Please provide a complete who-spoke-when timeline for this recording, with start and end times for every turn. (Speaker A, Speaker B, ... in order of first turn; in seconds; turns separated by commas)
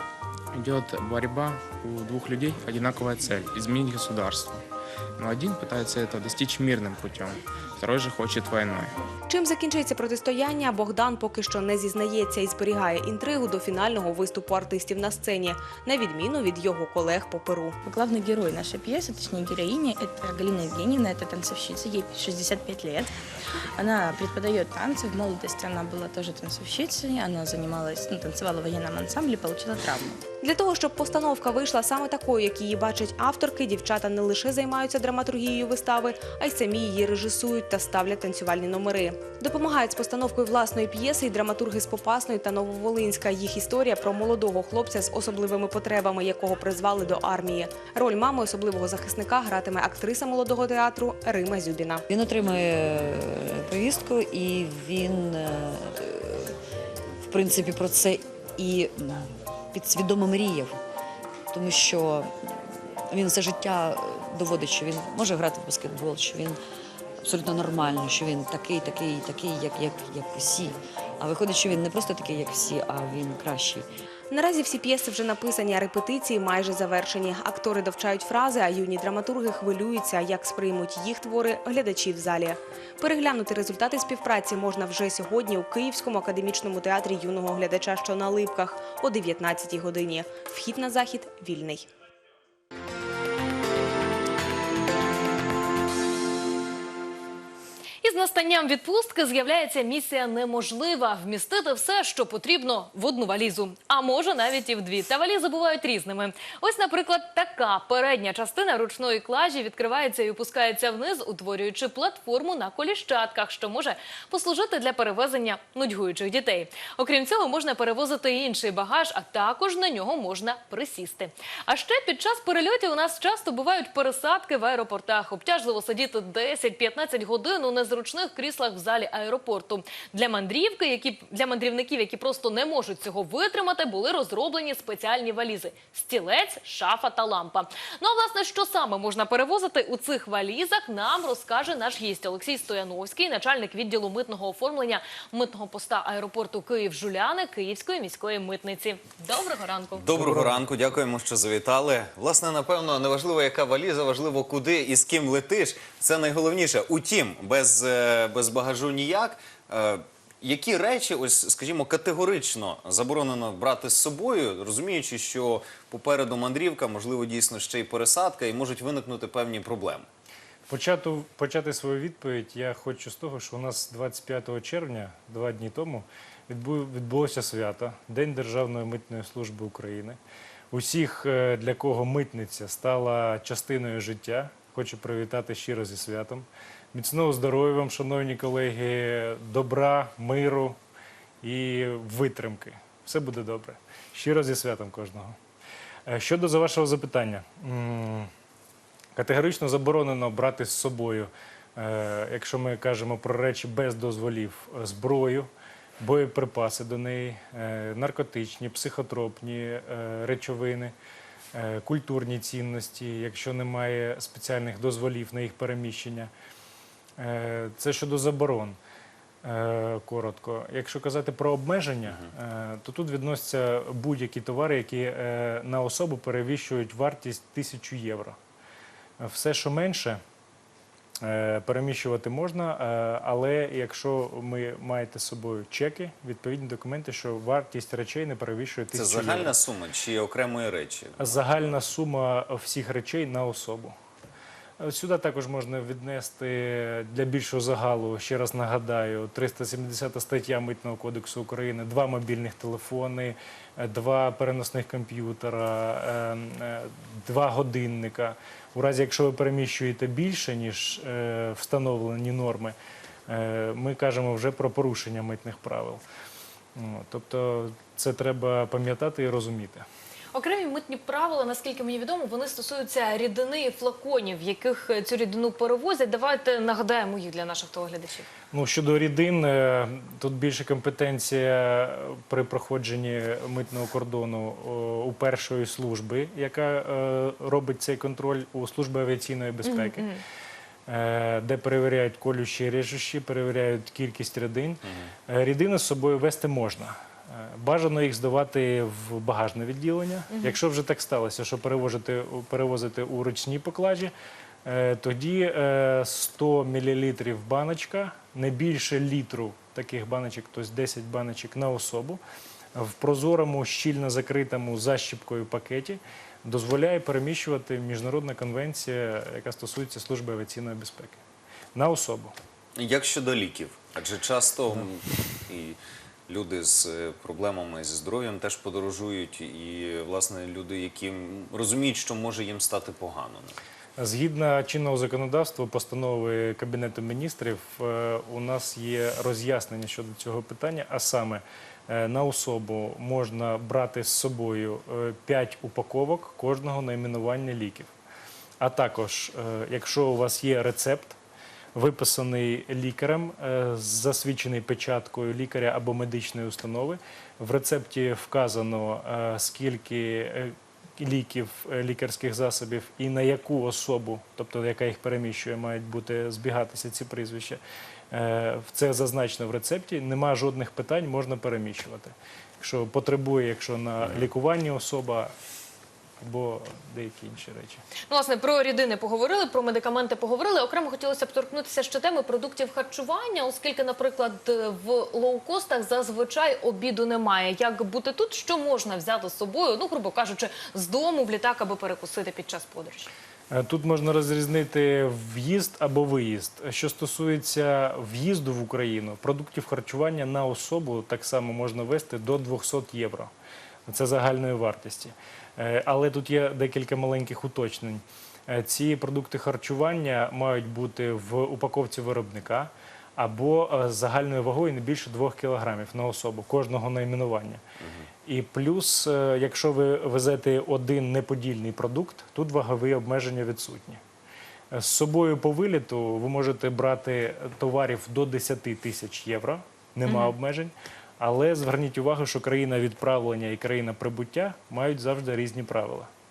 Speaker A: 0.5-4.6, Speaker A: 5.2-8.9, Speaker B: 9.3-17.8, Speaker C: 18.0-23.1, Speaker C: 23.8-30.1, Speaker B: 30.4-52.0, Speaker D: 52.1-56.5, Speaker D: 57.3-60.8, Speaker D: 61.5-62.3, Speaker D: 63.1-66.6, Speaker D: 67.2-73.9, Speaker B: 74.3-91.9, Speaker E: 98.0-150.0, Speaker F: 149.9-170.1, Speaker G: 150.2-150.6, Speaker G: 170.7-180.2, Speaker G: 180.7-190.8, Speaker G: 191.4-195.4, Speaker G: 196.1-198.3, Speaker G: 199.2-205.5, Speaker G: 206.0-210.9, Speaker G: 211.5-216.3, Speaker G: 217.2-218.8, Speaker G: 219.4-228.4, Speaker G: 229.2-230.2, Speaker G: 231.2-239.5, Speaker F: 238.9-241.8, Speaker G: 241.2-243.9, Speaker G: 244.8-262.8, Speaker G: 263.3-266.0, Speaker G: 266.8-269.9, Speaker E: 270.3-278.3, Speaker G: 278.5-290.1, Speaker E: 289.7-290.2, Speaker G: 290.9-304.1, Speaker G: 304.6-312.2, Speaker G: 312.8-321.2, Speaker G: 321.8-322.4, Speaker F: 322.8-333.6, Speaker G: 334.0-347.9, Speaker G: 348.6-351.2, Speaker G: 351.8-367.6, Speaker G: 368.1-375.3, Speaker F: 374.0-374.3, Speaker G: 376.2-377.8, Speaker E: 378.1-393.1, Speaker G: 393.5-403.3, Speaker G: 403.9-417.6, Speaker F: 417.8-418.1, Speaker G: 418.3-424.0, Speaker G: 424.7-436.1